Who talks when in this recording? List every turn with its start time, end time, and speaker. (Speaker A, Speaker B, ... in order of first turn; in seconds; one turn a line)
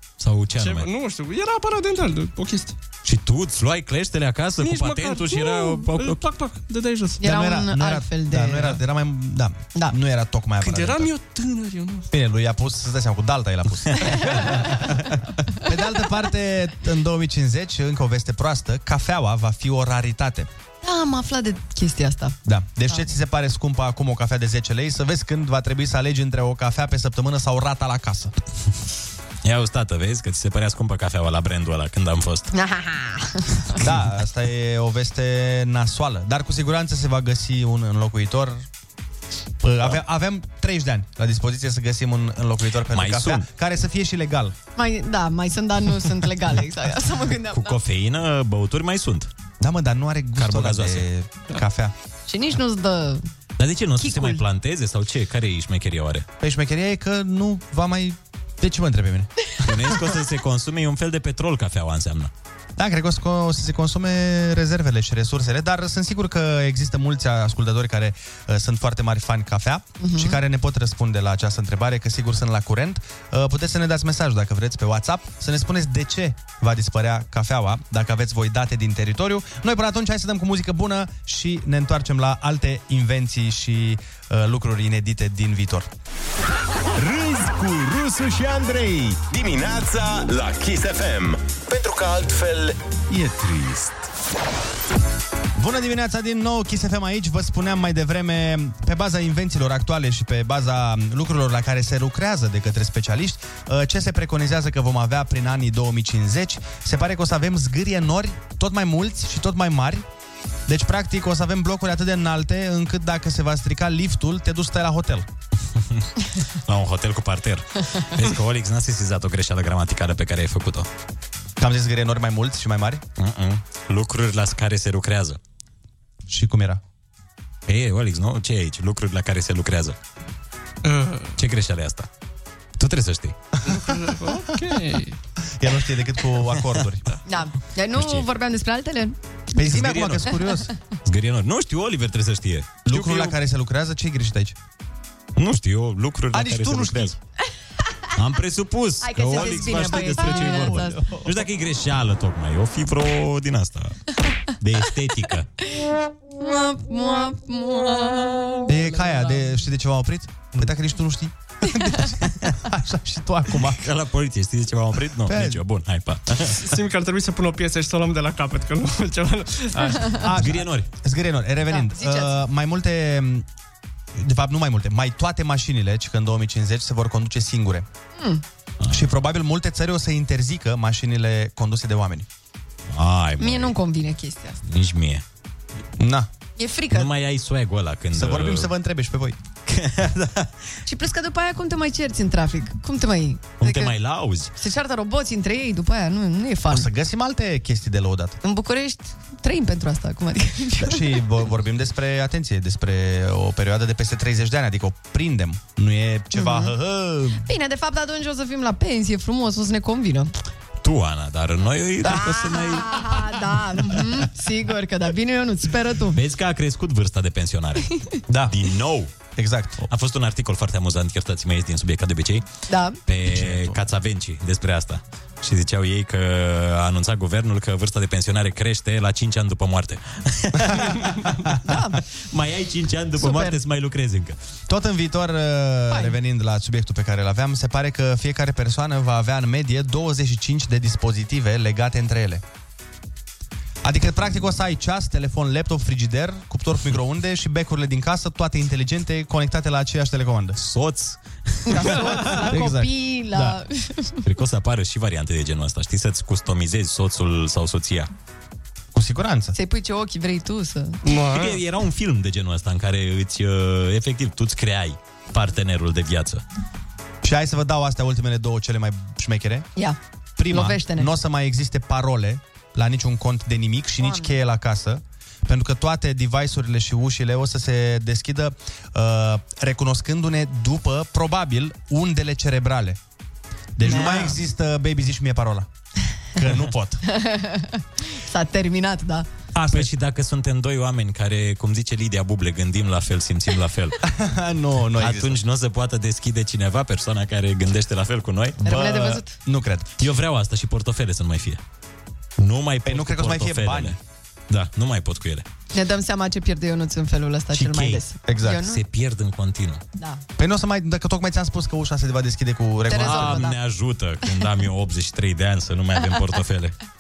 Speaker A: 0.2-0.9
Speaker B: 0.6-2.8
Speaker A: 3.0-6.2
Speaker B: 4.6-7.2
Speaker C: 7.2-8.8
Speaker D: 7.2-11.1
Speaker B: 10.6-12.1
Speaker D: 12.1-20.5
Speaker C: 20.8-22.4
Speaker D: 22.4-28.3
Speaker A: 29.4-32.5
Speaker C: 32.5-33.8
Speaker D: 33.8-38.7
Speaker D: 39.6-44.6
Speaker A: 42.9-43.4
Speaker C: 44.8-47.8
Speaker A: 47.5-49.3
Speaker D: 49.6-51.9
Speaker A: 50.4-51.1
Speaker C: 52.3-53.3
Speaker A: 53.6-56.3
Speaker C: 54.0-54.4
Speaker D: 56.4-59.3
Speaker A: 59.6-62.3
Speaker D: 62.8-85.9
Speaker C: 70.0-70.4
Speaker E: 87.0-94.1
Speaker D: 95.6-110.1
Speaker D: 110.7-115.3
Speaker A: 116.7-120.9
Speaker D: 121.6-123.0
Speaker A: 123.2-125.4
Speaker D: 126.3-126.8
Speaker A: 127.7-130.0
Speaker B: 130.8-131.4
Speaker A: 131.4-132.1
Speaker A: 132.8-133.4
Speaker B: 133.7-135.2
Speaker D: 135.6-137.1
Speaker C: 137.3-139.2
Speaker A: 137.9-138.3
Speaker D: 139.6-140.7
Speaker A: 139.6-140.4
Speaker A: 141.1-143.3
Speaker D: 142.9-144.6
Speaker A: 145.4-147.2
Speaker D: 146.3-147.2
Speaker A: 148.2-154.0
Speaker C: 149.0-151.1
Speaker D: 150.4-151.4
Speaker A: 154.6-155.5
Speaker C: 156.4-159.6
Speaker D: 158.7-163.8
Speaker A: 163.6-166.8
Speaker D: 165.3-165.6
Speaker B: 166.6-170.3
Speaker D: 170.2-173.5
Speaker A: 170.3-170.9
Speaker C: 171.7-172.4
Speaker D: 174.1-177.9
Speaker C: 178.2-178.4
Speaker A: 178.8-179.1
Speaker D: 178.9-182.3
Speaker A: 182.9-183.8
Speaker C: 183.4-184.6
Speaker A: 184.7-185.2
Speaker D: 186.0-186.3
Speaker C: 186.6-187.1
Speaker A: 186.9-188.7
Speaker D: 188.1-189.4
Speaker A: 189.7-190.5
Speaker C: 190.9-193.9
Speaker A: 193.6-194.5
Speaker C: 194.6-196.9
Speaker D: 196.7-198.4
Speaker C: 198.4-201.2
Speaker D: 200.8-207.4
Speaker C: 206.3-206.8
Speaker C: 207.4-210.3
Speaker A: 210.8-214.2
Speaker C: 212.0-216.2
Speaker A: 216.1-217.9
Speaker D: 218.3-218.5
Speaker A: 218.5-219.1
Speaker D: 219.4-219.9
Speaker A: 219.9-222.5
Speaker C: 222.7-223.0
Speaker A: 223.1-231.0
Speaker D: 223.2-223.8
Speaker C: 231.6-232.0
Speaker A: 232.3-234.4
Speaker C: 233.2-233.6
Speaker D: 234.7-242.4
Speaker C: 235.9-236.2
Speaker D: 243.8-250.6
Speaker A: 250.6-252.0
Speaker C: 251.7-254.2
Speaker D: 251.9-253.6
Speaker A: 254.2-258.1
Speaker D: 258.9-259.6
Speaker C: 259.5-261.0
Speaker B: 261.1-261.6
Speaker A: 261.2-266.4
Speaker D: 267.2-269.7
Speaker D: 270.4-283.0
Speaker C: 270.5-271.1
Speaker C: 274.0-274.4
Speaker D: 283.8-285.7
Speaker C: 283.8-284.4
Speaker D: 286.4-287.0
Speaker C: 287.1-289.3
Speaker D: 289.6-289.9
Speaker A: 289.7-294.0
Speaker D: 294.0-295.4
Speaker A: 295.0-298.7
Speaker C: 298.6-299.3
Speaker D: 298.6-299.9
Speaker A: 300.0-301.6
Speaker A: 302.4-304.0
Speaker D: 302.9-304.0
Speaker A: 304.5-305.5
Speaker C: 305.7-308.8
Speaker A: 307.5-309.8
Speaker D: 308.3-308.6
Speaker D: 310.4-313.4
Speaker C: 312.9-313.6
Speaker A: 312.9-316.7